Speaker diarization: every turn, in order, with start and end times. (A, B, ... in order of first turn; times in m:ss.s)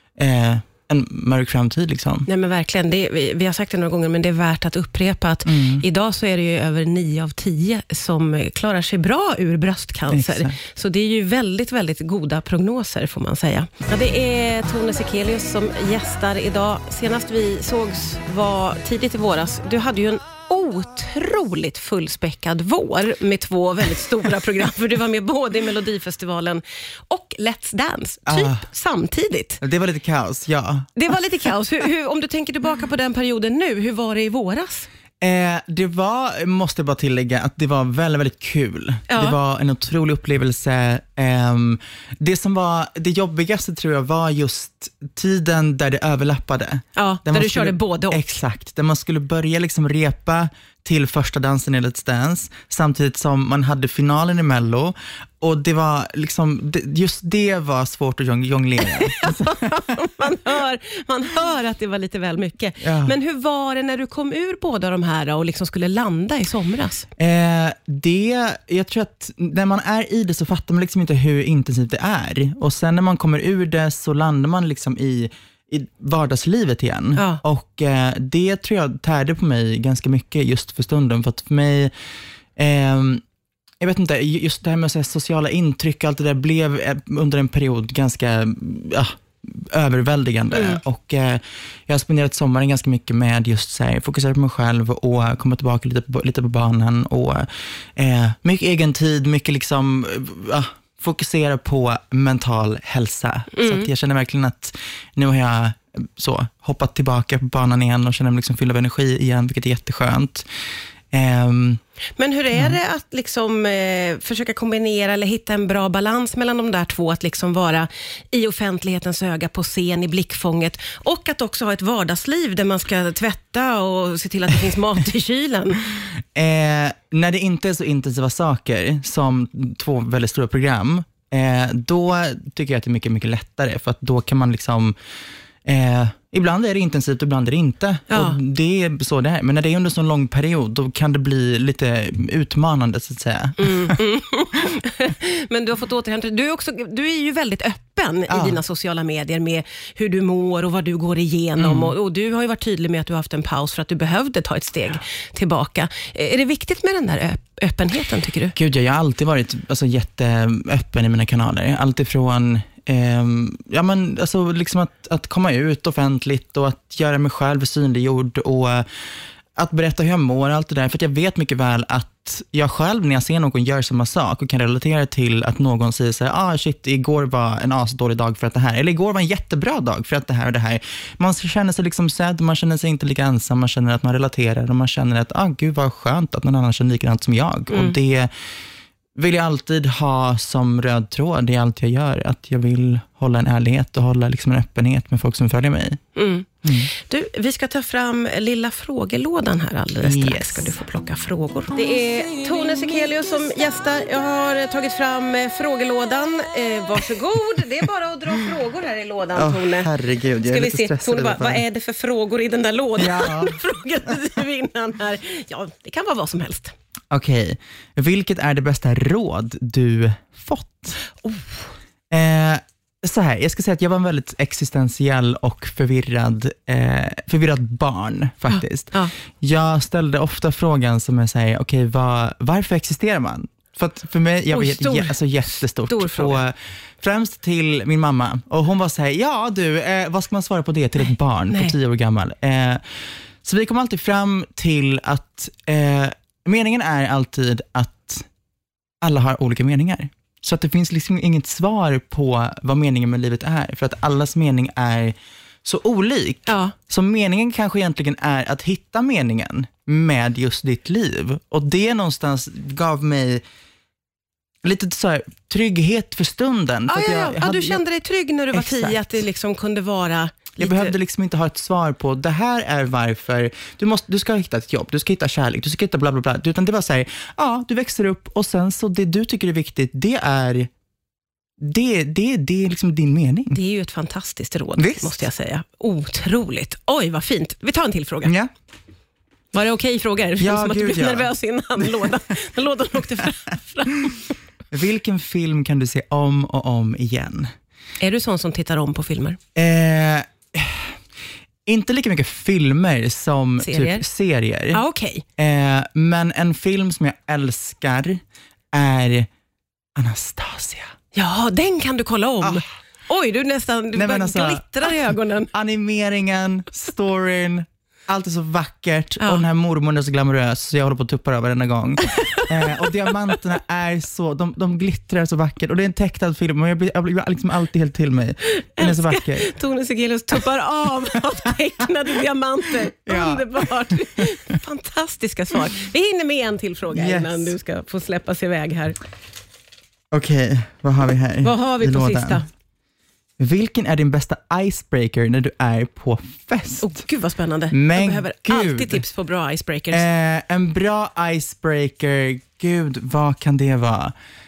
0:00.2-0:02.3 A
0:02.2-0:29.6 B
0:05.4-0:05.8 A
0:10.1-0:10.5 A
0:28.3-0:28.6 A
0:29.6-0:31.2 A
0:31.0-0:34.9 B
0:35.2-1:00.0 A
0:39.1-0:39.4 B
0:46.9-0:48.4 B
0:58.9-1:07.1 B
1:02.8-1:03.1 A
1:07.2-1:21.9 A
1:17.2-1:17.4 B
1:22.6-1:23.2 A
1:23.8-1:50.4 A
1:30.5-1:30.8 B
1:43.5-1:43.9 B
1:51.1-1:51.8 A
1:52.2-2:05.9 B
1:52.5-1:52.8 A
2:06.3-2:15.0 A
2:15.6-2:24.0 A
2:18.1-2:18.4 B
2:23.6-2:38.6 B
2:28.3-2:28.6 A
2:31.6-2:31.9 A
2:38.6-2:48.8 A
2:49.6-3:08.3 A
3:07.7-3:08.0 B
3:09.2-3:16.0 A
3:16.2-3:29.9 B
3:16.6-3:16.9 A
3:20.0-3:20.7 A
3:29.4-3:31.6 A
3:30.4-3:36.7 B
3:33.0-3:34.2 A
3:37.1-3:41.0 A
3:42.1-4:08.3 A
3:48.5-3:49.1 B
3:54.5-3:55.2 B
3:55.8-3:56.4 B
4:01.5-4:01.7 B
4:09.0-4:23.4 A
4:16.5-4:16.7 B
4:24.6-4:27.8 A
4:26.9-4:30.9 B
4:28.5-4:29.1 A
4:30.6-4:40.7 A
4:41.6-4:43.6 A
4:43.5-4:48.3 B
4:44.8-4:45.2 A
4:48.2-4:48.5 A
4:49.5-4:54.3 B
4:50.4-4:52.1 A
4:54.7-4:57.5 A
4:58.0-4:59.4 B
4:59.6-5:01.0 A
5:01.6-5:04.8 A
5:03.6-5:04.0 B
5:04.7-5:05.2 B
5:05.4-5:08.2 A
5:08.7-5:09.3 A
5:10.0-5:10.9 A
5:11.1-5:15.5 B
5:13.9-5:29.5 A
5:28.6-5:39.0 B
5:33.0-5:34.6 A
5:36.9-5:37.5 A
5:40.1-5:42.4 A
5:41.4-5:42.5 B
5:43.4-5:47.0 A
5:46.8-5:50.0 B
5:47.7-5:49.0 A
5:49.9-5:54.1 A